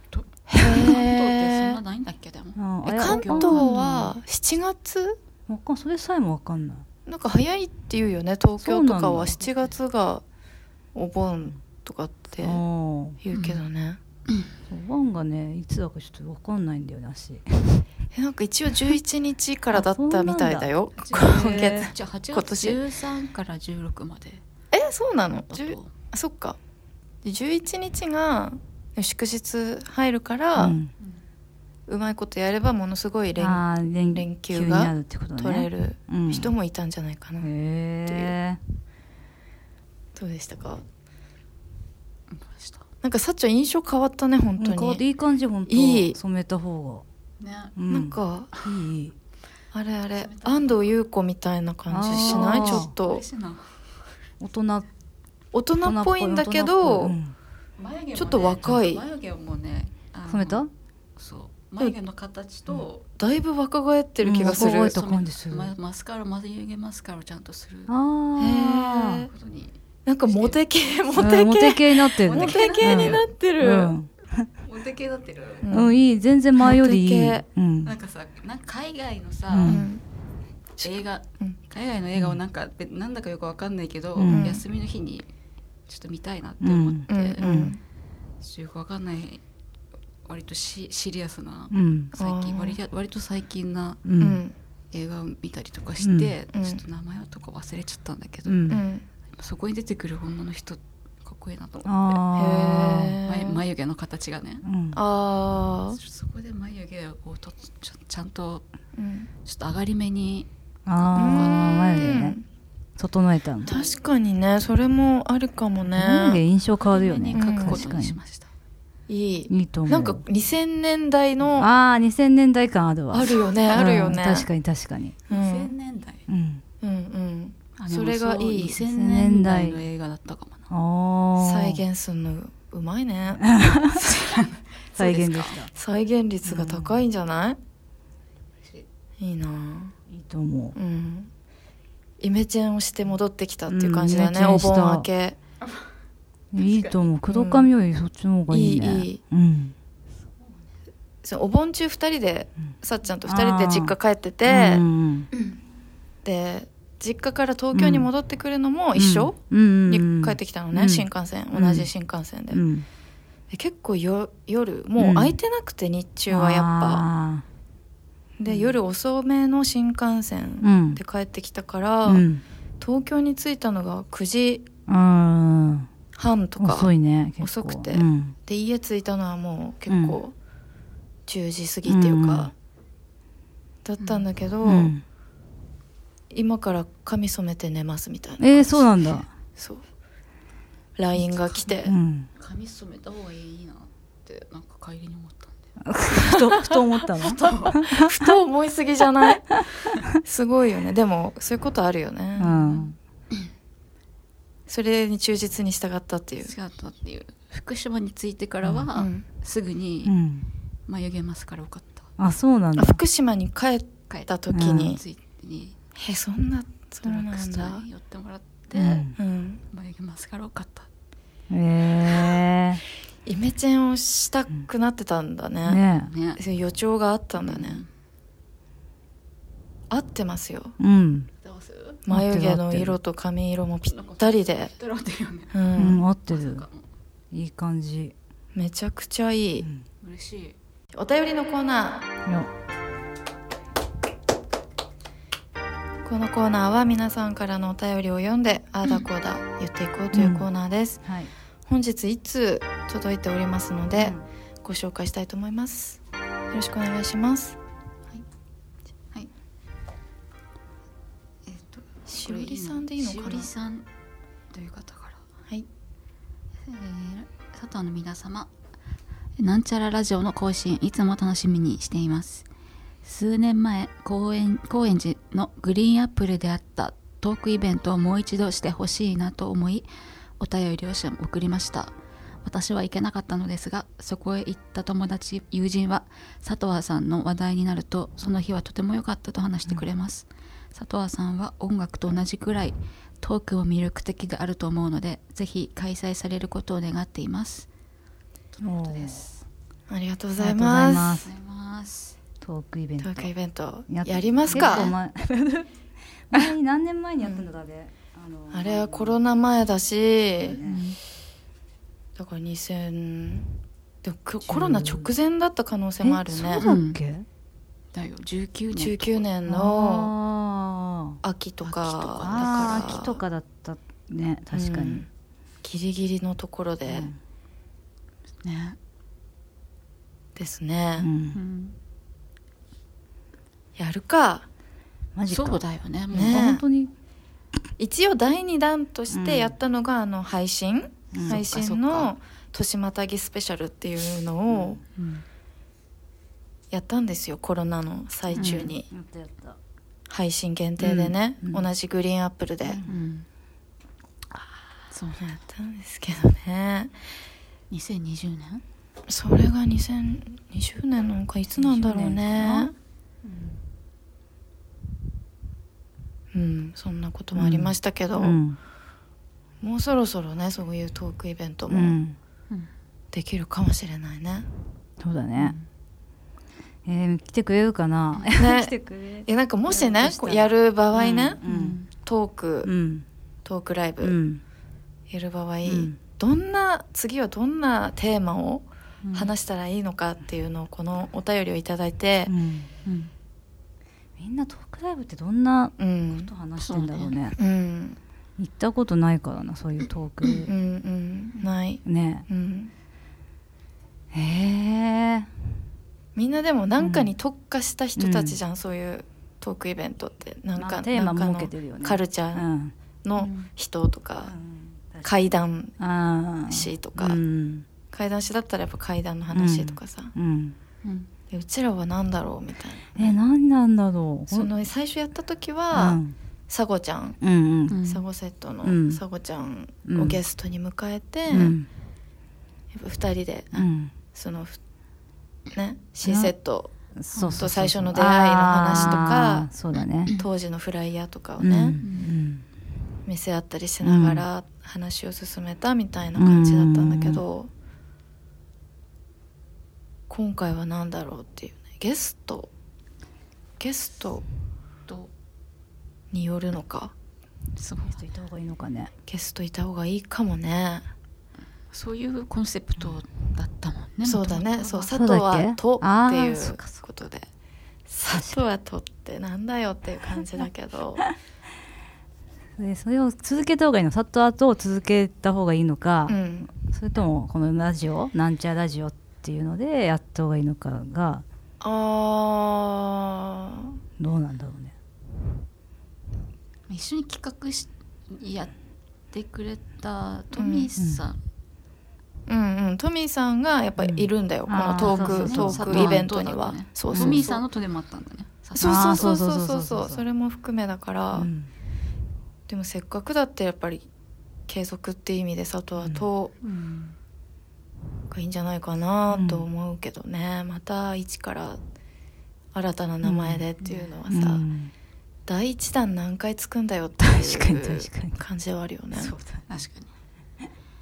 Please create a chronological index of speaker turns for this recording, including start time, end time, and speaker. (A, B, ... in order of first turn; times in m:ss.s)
0:00.1-0:04.1 A
0:00.5-0:01.8 B
0:02.6-0:03.9 C
0:02.8-0:05.2 B
0:05.5-0:06.8 C
0:07.1-0:10.2 B
0:08.6-0:09.4 C
0:11.0-0:12.6 B
0:12.4-0:13.2 C
0:13.2-0:14.0 B
0:13.3-0:13.6 A
0:14.7-0:17.8 C
0:18.1-0:22.8 B
0:19.7-0:21.9 C
0:21.0-0:24.4 A
0:24.7-0:26.6 B
0:25.5-0:25.9 A
0:27.2-0:30.8 B
0:30.6-0:30.9 C
0:31.9-0:37.5 B
0:33.4-0:36.5 C
0:37.4-0:38.6 C
0:38.1-0:38.3 B
0:40.2-0:40.8 B
0:42.3-0:42.8 A
0:43.0-0:45.0 B
0:44.6-0:47.0 C
0:45.7-0:46.2 B
0:47.4-0:47.8 A
0:47.8-0:49.2 C
0:47.9-0:48.5 B
0:48.5-0:48.8 A
0:49.7-0:53.2 B
0:50.2-0:50.9 A
0:51.9-0:52.9 C
0:52.1-0:54.0 A
0:54.4-0:54.9 C
0:55.5-0:57.2 B
0:55.8-0:57.4 C
0:57.8-1:00.7 A
0:58.2-0:59.0 B
1:00.3-1:00.7 C
1:01.2-1:03.1 A
1:03.2-1:05.0 B
1:04.2-1:05.7 C
1:04.4-1:08.0 A
1:07.9-1:09.3 C
1:08.4-1:09.3 B
1:09.3-1:11.4 A
1:10.1-1:14.0 B
1:11.2-1:14.5 C
1:12.2-1:13.2 A
1:14.6-1:15.7 A
1:15.6-1:16.0 B
1:15.7-1:18.0 C
1:16.6-1:17.4 B
1:17.8-1:19.9 A
1:19.5-1:19.8 C
1:19.6-1:20.0 B
1:20.8-1:25.3 A
1:20.8-1:21.6 B
1:24.2-1:24.5 C
1:24.3-1:24.6 B
1:25.9-1:27.6 A
1:26.6-1:27.7 C
1:27.1-1:27.8 B
1:28.4-1:29.4 A
1:30.2-1:34.0 A
1:31.7-1:32.1 C
1:32.1-1:32.8 B
1:34.0-1:34.4 C
1:34.2-1:34.6 B
1:34.9-1:42.2 A
1:36.0-1:36.4 C
1:36.5-1:36.8 B
1:38.5-1:38.8 C
1:38.7-1:39.0 B
1:41.8-1:43.2 C
1:42.4-1:43.6 B
1:43.2-1:44.6 A
1:44.6-1:45.0 C
1:44.9-1:46.0 B
1:45.9-1:48.6 A
1:49.0-1:49.3 B
1:49.4-1:52.2 A
1:50.9-1:52.4 C
1:51.2-1:52.4 B
1:53.0-1:53.7 C
1:53.6-1:54.0 A
1:53.6-1:56.4 B
1:56.0-1:58.2 C
1:56.8-1:58.5 A
1:57.3-1:57.8 B
1:59.1-2:01.7 B
1:59.5-2:00.2 C
2:01.6-2:05.2 C
2:03.1-2:04.5 B
2:03.7-2:04.1 A
2:05.3-2:05.7 B
2:05.3-2:06.2 A
2:06.3-2:06.6 C
2:06.8-2:08.8 B
2:07.8-2:10.7 A
2:08.8-2:09.8 C
2:10.7-2:11.8 C
2:11.4-2:14.2 B
2:13.4-2:14.0 C
2:14.0-2:14.8 A
2:15.0-2:15.7 C
2:15.0-2:17.6 B
2:16.5-2:17.0 C
2:19.2-2:20.0 B
2:20.1-2:20.8 C
2:20.8-2:21.3 B
2:22.2-2:25.4 B
2:23.7-2:25.1 C
2:26.5-2:29.8 C
2:26.6-2:27.0 A
2:27.3-2:27.7 B
2:28.5-2:29.2 B
2:30.4-2:30.6 A
2:31.2-2:34.8 B
2:33.2-2:35.3 C
2:35.3-2:35.6 A
2:36.2-2:39.4 B
2:37.7-2:38.1 C
2:39.0-2:41.9 C
2:39.9-2:42.7 B
2:42.5-2:42.9 C
2:43.5-2:47.1 B
2:45.0-2:45.4 C
2:46.3-2:47.4 C
2:48.4-2:52.3 B
2:50.6-2:51.0 C
2:52.1-2:52.4 C
2:52.8-2:54.7 B
2:54.9-2:55.9 C
2:56.1-3:00.4 B
2:56.6-2:58.4 C
2:59.9-3:00.2 C
3:01.3-3:02.5 B
3:01.9-3:02.5 C
3:03.8-3:04.9 B
3:04.0-3:04.3 A
3:04.6-3:05.0 C
3:06.3-3:09.8 B
3:08.4-3:09.3 C
3:11.0-3:11.9 B
3:11.2-3:16.5 A
3:11.8-3:12.3 C
3:15.8-3:18.3 C
3:16.2-3:22.8 B
3:17.1-3:17.8 A
3:22.4-3:23.0 C
3:22.6-3:22.9 A
3:24.7-3:26.5 B
3:26.4-3:30.2 A
3:28.6-3:28.9 C
3:29.0-3:29.2 B
3:30.0-3:30.5 C
3:30.9-3:32.1 A
3:32.2-3:33.0 C
3:32.8-3:35.0 B
3:34.1-3:35.8 A
3:34.5-3:35.0 C
3:36.0-3:37.8 B
3:37.1-3:39.1 A
3:38.7-3:39.2 C
3:39.2-3:39.6 B
3:39.7-3:40.9 A
3:41.5-3:42.8 C
3:43.3-3:45.8 B
3:45.7-3:46.1 C
3:46.0-3:46.4 A
3:46.4-3:47.8 B
3:47.4-3:47.9 A
3:49.9-3:50.8 B
3:50.8-3:51.3 C
3:51.4-3:52.0 A
3:52.0-3:54.7 B
3:52.1-3:53.0 C
3:53.9-3:55.6 A
3:55.5-3:56.0 B
3:55.8-3:56.6 C
3:56.3-3:56.9 A
3:57.3-3:58.2 C
3:58.6-3:59.7 B
4:00.0-4:00.6 A
4:00.9-4:02.1 B
4:06.0-4:11.0 B
4:10.1-4:10.5 C
4:11.0-4:11.3 C
4:11.6-4:16.0 B
4:13.9-4:14.2 C
4:16.5-4:17.6 B
4:21.5-4:23.9 A
4:22.1-4:23.5 B
4:24.5-4:25.2 A
4:26.6-4:28.5 A
4:29.4-4:32.5 A
4:33.0-4:39.9 A
4:40.4-4:57.7 A
4:58.6-4:59.4 A
4:58.6-4:59.3 C
4:59.9-5:01.2 B
5:00.4-5:01.3 C
5:01.2-5:02.2 A
5:02.4-5:03.3 C
5:03.0-5:04.9 B
5:03.9-5:05.7 C
5:04.5-5:04.9 A
5:06.3-5:09.2 C
5:07.2-5:07.5 B
5:08.5-5:10.6 B
5:10.4-5:10.8 C
5:10.6-5:11.0 A
5:12.2-5:13.5 B
5:14.0-5:16.6 B
5:14.5-5:15.1 C
5:16.0-5:17.3 C
5:16.6-5:17.0 A
5:17.9-5:19.3 A
5:18.8-5:20.1 B
5:19.5-5:21.2 C
5:21.2-5:23.2 B
5:21.6-5:23.1 A
5:22.2-5:25.0 C
5:24.5-5:25.1 B
5:25.6-5:27.1 B
5:26.9-5:27.2 C
5:28.4-5:28.8 A
5:30.4-5:31.1 B
5:31.0-5:31.4 C
5:31.3-5:31.8 A
5:33.8-5:34.5 B
5:35.2-5:36.9 C
5:35.3-5:36.4 A
5:36.1-5:36.6 B
5:37.8-5:44.8 B
5:39.1-5:39.5 C
5:41.1-5:41.4 C
5:41.3-5:42.1 A
5:45.0-5:45.2 A
5:46.7-5:48.9 B
5:48.4-5:49.6 C
5:48.4-5:48.7 A
5:50.1-5:52.8 B
5:50.8-5:51.7 C
5:52.6-5:53.0 C
5:52.9-5:53.3 A
5:54.9-5:55.3 A
5:55.2-5:56.9 B
5:57.7-5:58.6 A
5:59.1-6:02.7 B
6:01.6-6:02.2 C
6:02.3-6:02.7 A
6:06.3-6:08.4 B
6:07.4-6:08.6 C
6:09.6-6:12.0 B
6:11.7-6:12.2 C
6:13.1-6:14.5 B
6:15.0-6:15.6 C
6:15.4-6:15.6 A
6:16.8-6:21.8 C
6:18.4-6:18.7 B
6:19.2-6:21.4 B
6:21.4-6:21.9 A
6:22.0-6:22.7 B
6:22.6-6:23.0 C
6:23.4-6:24.2 B
6:24.0-6:24.4 C
6:25.1-6:32.3 B
6:25.7-6:26.0 C
6:29.0-6:29.3 A
6:32.3-6:32.7 C
6:32.8-6:33.1 A
6:34.2-6:37.4 C
6:35.8-6:36.3 B
6:36.6-6:37.2 A
6:37.4-6:38.0 B
6:38.4-6:40.5 C
6:40.2-6:40.5 A
6:40.5-6:42.7 B
6:41.8-6:42.3 C
6:44.1-6:45.3 C
6:46.2-6:52.5 B
6:46.8-6:47.1 C
6:48.0-6:48.4 C
6:50.6-6:52.7 C
6:53.0-6:54.3 B
6:53.2-6:53.5 A
6:54.2-6:57.7 C
6:55.0-6:55.7 B
6:56.5-6:57.2 B
6:57.9-7:00.1 B
6:59.3-7:00.6 C
7:00.8-7:01.1 A
7:01.3-7:03.2 B
7:03.0-7:04.5 C
7:04.3-7:07.2 B
7:05.7-7:06.2 C
7:07.2-7:07.8 C
7:07.7-7:08.1 A
7:07.8-7:11.6 B
7:08.6-7:09.0 C
7:09.9-7:10.2 C
7:11.3-7:11.7 C
7:12.7-7:14.6 B
7:13.5-7:13.9 C
7:15.5-7:16.7 B
7:16.0-7:16.3 C
7:17.0-7:20.1 C
7:17.1-7:17.5 A
7:17.4-7:19.5 B
7:18.8-7:19.1 A
7:20.1-7:21.8 B
7:21.4-7:22.4 C
7:21.8-7:22.1 A
7:23.1-7:27.5 B
7:23.8-7:24.2 C
7:26.2-7:27.2 C
7:30.1-7:32.5 B
7:33.6-7:34.2 B
7:36.1-7:36.9 B
7:37.6-7:38.0 A
7:38.0-7:38.9 C
7:39.1-7:40.9 B
7:41.7-7:44.9 A
7:44.0-7:47.3 B
7:44.9-7:46.7 C
7:47.9-7:51.1 B
7:48.1-7:48.4 C
7:52.6-8:01.2 C
7:56.1-7:56.5 B
8:01.6-8:03.8 B
8:04.0-8:04.7 C
8:06.7-8:08.5 A
8:09.1-8:11.2 A
8:10.4-8:10.7 B
8:10.8-8:11.0 C
8:12.3-8:17.4 B
8:13.8-8:16.1 C
8:14.8-8:19.1 A
8:16.9-8:17.4 C
8:18.6-8:21.3 B
8:18.6-8:20.0 C
8:21.2-8:21.5 C
8:22.5-8:23.9 B
8:24.5-8:26.3 B
8:26.4-8:27.0 A
8:28.1-8:31.6 B
8:29.1-8:29.5 C
8:32.5-8:34.4 B
8:33.0-8:33.4 C
8:33.6-8:33.9 A
8:34.1-8:34.7 C
8:35.3-8:39.2 B
8:37.0-8:38.2 C
8:39.0-8:39.9 A